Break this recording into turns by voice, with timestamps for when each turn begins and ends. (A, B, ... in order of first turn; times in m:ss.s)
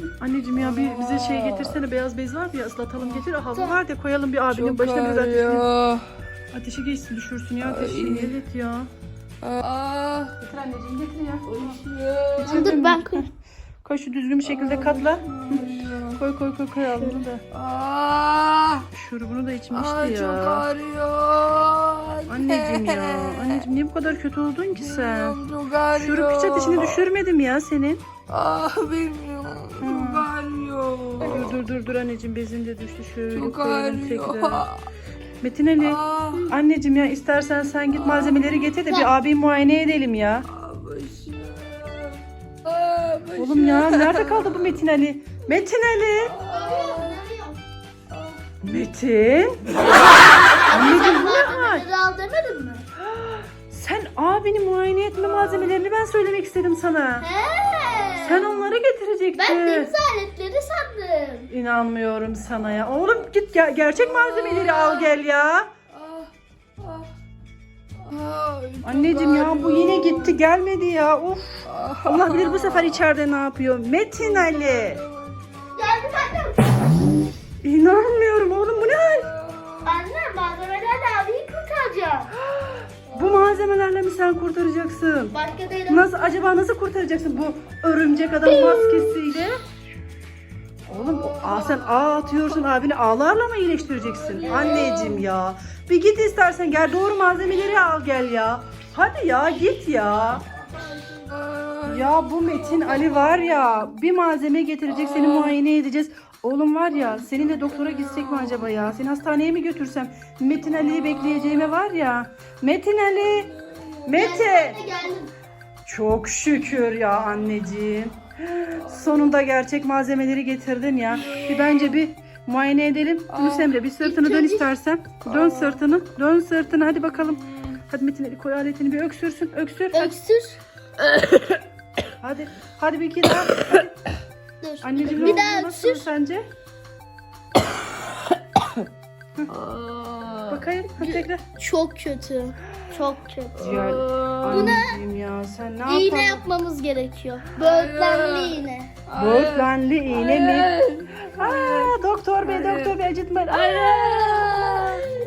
0:00.2-0:05.6 A
0:00.5-0:01.8 B
0:03.0-0:03.2 B
0:03.5-0:03.8 C
0:04.5-0:06.1 B
0:06.5-0:08.9 A
0:07.6-0:08.3 B
0:09.4-0:10.4 B
0:10.4-0:11.8 A
0:11.4-0:12.7 B
0:12.4-0:13.2 A
0:12.4-0:13.2 C
0:13.8-0:17.4 A
0:14.4-0:16.2 B
0:17.5-0:18.9 B
0:18.9-0:20.7 A
0:19.7-0:23.6 B
0:22.3-0:25.4 A
0:24.7-0:27.1 B
0:25.9-0:28.0 A
0:28.3-0:31.6 B
0:29.8-0:30.3 A
0:31.2-0:34.7 A
0:33.3-0:34.8 B
0:35.4-0:40.5 A
0:35.8-0:36.5 B
0:37.9-0:38.7 B
0:40.5-0:44.8 B
0:43.4-0:46.3 A
0:46.2-0:47.2 B
0:46.4-0:47.6 C
0:48.1-0:48.4 B
0:48.6-0:49.6 A
0:50.5-0:52.8 C
0:50.7-0:51.8 A
0:53.0-0:57.3 A
0:55.2-0:55.8 B
0:57.2-0:58.5 C
0:57.8-0:58.8 B
0:58.2-0:59.9 A
0:59.4-1:01.5 C
1:01.5-1:05.7 A
1:02.8-1:03.2 B
1:03.8-1:05.1 B
1:05.9-1:07.1 B
1:08.0-1:10.4 B
1:08.8-1:15.0 A
1:11.7-1:13.0 B
1:14.2-1:16.2 B
1:15.7-1:16.8 C
1:17.6-1:19.3 A
1:18.8-1:20.1 B
1:19.8-1:22.3 C
1:22.5-1:25.4 A
1:23.1-1:23.7 B
1:25.3-1:26.1 C
1:25.9-1:29.6 A
1:28.4-1:29.3 C
1:30.9-1:40.4 A
1:30.9-1:32.7 B
1:33.8-1:35.1 B
1:34.4-1:35.2 C
1:40.5-1:43.9 B
1:41.9-1:53.5 A
1:44.9-1:45.6 B
1:46.9-1:48.9 B
1:50.7-1:51.7 B
1:53.2-1:54.2 B
1:54.0-1:54.8 A
1:54.1-1:55.3 C
1:55.8-2:10.1 A
2:01.1-2:02.0 B
2:03.3-2:03.8 B
2:04.0-2:04.7 C
2:05.2-2:05.8 B
2:07.1-2:07.8 B
2:09.9-2:10.6 C
2:12.2-2:13.9 A
2:14.6-2:16.1 C
2:14.8-2:16.4 A
2:19.5-2:20.6 B
2:20.5-2:21.4 A
2:21.0-2:23.7 C
2:23.6-2:24.8 B
2:23.6-2:26.4 A
2:24.5-2:25.0 C
2:25.8-2:29.0 C
2:27.5-2:33.0 B
2:29.1-2:30.7 A
2:31.3-2:34.4 A
2:33.5-2:35.1 B
2:34.1-2:35.1 C